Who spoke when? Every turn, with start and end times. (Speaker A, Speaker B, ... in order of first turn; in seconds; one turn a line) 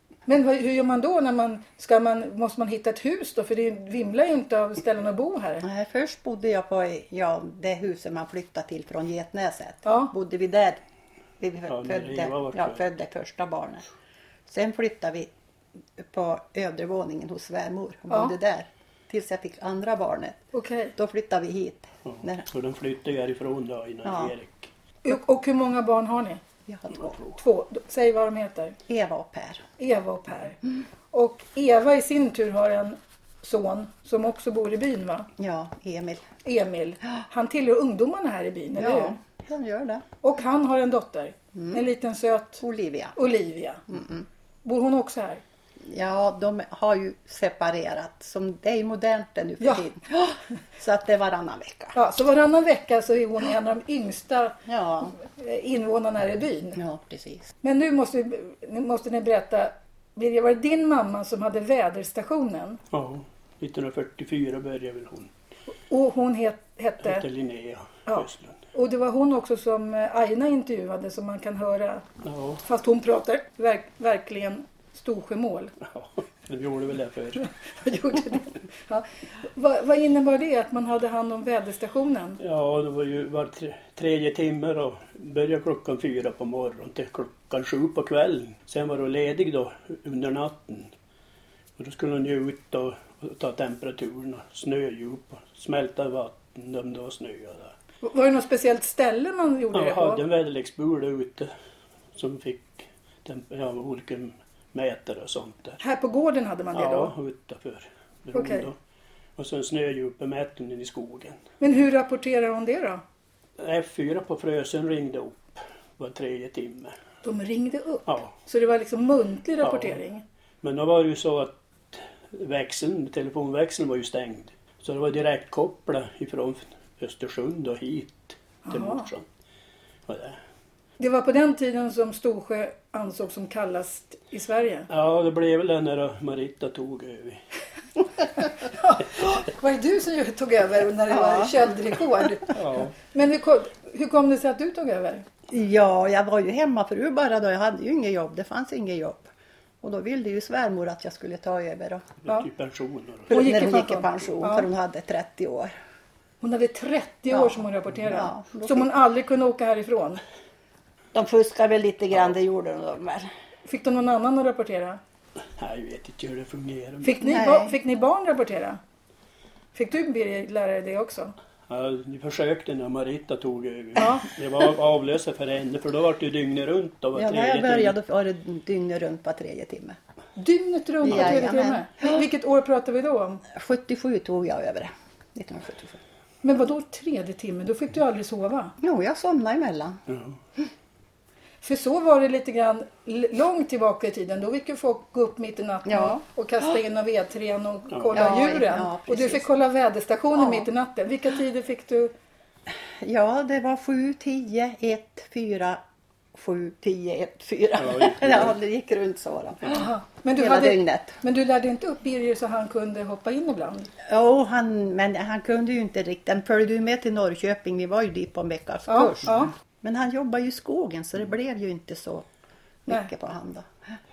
Speaker A: 0.3-5.7
Speaker B: 5.6-10.8
Speaker A: 9.8-10.1
Speaker B: 11.4-13.8
Speaker C: 11.7-12.8
Speaker B: 14.5-15.3
Speaker B: 16.0-20.4
Speaker A: 20.5-20.9
Speaker B: 20.9-22.5
Speaker C: 22.1-24.7
Speaker B: 24.1-24.3
Speaker A: 25.0-26.4
Speaker B: 26.7-27.2
Speaker C: 27.1-27.4
Speaker A: 27.4-28.8
Speaker B: 28.9-29.6
Speaker A: 29.8-35.3
Speaker B: 35.4-36.3
Speaker A: 36.4-39.2
Speaker B: 38.8-40.0
Speaker A: 40.2-42.6
Speaker B: 41.5-41.8
Speaker B: 42.6-43.2
Speaker A: 43.1-43.8
Speaker B: 43.9-44.3
Speaker A: 44.6-45.4
Speaker B: 45.8-52.0
Speaker A: 52.0-56.8
Speaker B: 54.7-55.1
Speaker B: 56.8-57.5
Speaker A: 57.6-62.8
Speaker C: 62.9-65.3
Speaker A: 65.9-67.2
Speaker C: 67.0-68.6
Speaker A: 68.1-72.1
Speaker C: 72.2-72.6
Speaker A: 72.6-75.7
Speaker C: 75.8-77.5
Speaker A: 77.4-82.4
Speaker C: 82.4-90.9
Speaker C: 91.8-97.7
Speaker A: 98.0-100.2
Speaker C: 99.7-101.5
Speaker C: 102.2-105.8
Speaker A: 105.8-107.1
Speaker C: 106.7-108.8
Speaker A: 108.3-108.7
Speaker C: 109.4-111.4
Speaker A: 111.6-113.0
Speaker C: 113.6-117.0
Speaker A: 117.2-120.2
Speaker C: 119.6-120.0
Speaker C: 120.6-129.3
Speaker A: 128.7-129.1
Speaker C: 130.1-130.4
Speaker A: 131.0-134.9
Speaker C: 134.9-137.4
Speaker A: 138.4-145.3
Speaker B: 141.1-141.5
Speaker C: 142.5-142.9
Speaker B: 145.5-149.3
Speaker B: 149.8-152.1
Speaker C: 152.2-153.5
Speaker B: 153.3-155.7
Speaker A: 153.3-154.7
Speaker A: 156.4-160.2
Speaker B: 157.3-158.9
Speaker B: 161.1-163.3
Speaker A: 163.7-165.0
Speaker C: 165.6-167.2
Speaker A: 167.0-168.8
Speaker B: 167.2-167.8
Speaker A: 169.7-171.3
Speaker C: 171.7-177.9
Speaker A: 174.0-174.3
Speaker B: 177.2-180.0
Speaker A: 180.4-183.4
Speaker B: 181.1-182.2
Speaker B: 183.5-186.0
Speaker A: 186.4-188.8
Speaker B: 188.8-190.0
Speaker C: 190.1-190.4
Speaker A: 191.6-202.1
Speaker B: 195.9-196.2
Speaker C: 197.9-198.3
Speaker B: 198.1-199.5
Speaker B: 200.3-200.7
Speaker B: 202.7-205.8
Speaker B: 206.3-211.2
Speaker C: 207.8-208.5
Speaker A: 209.7-213.9
Speaker B: 214.0-222.3
Speaker A: 218.9-219.5
Speaker B: 222.8-224.0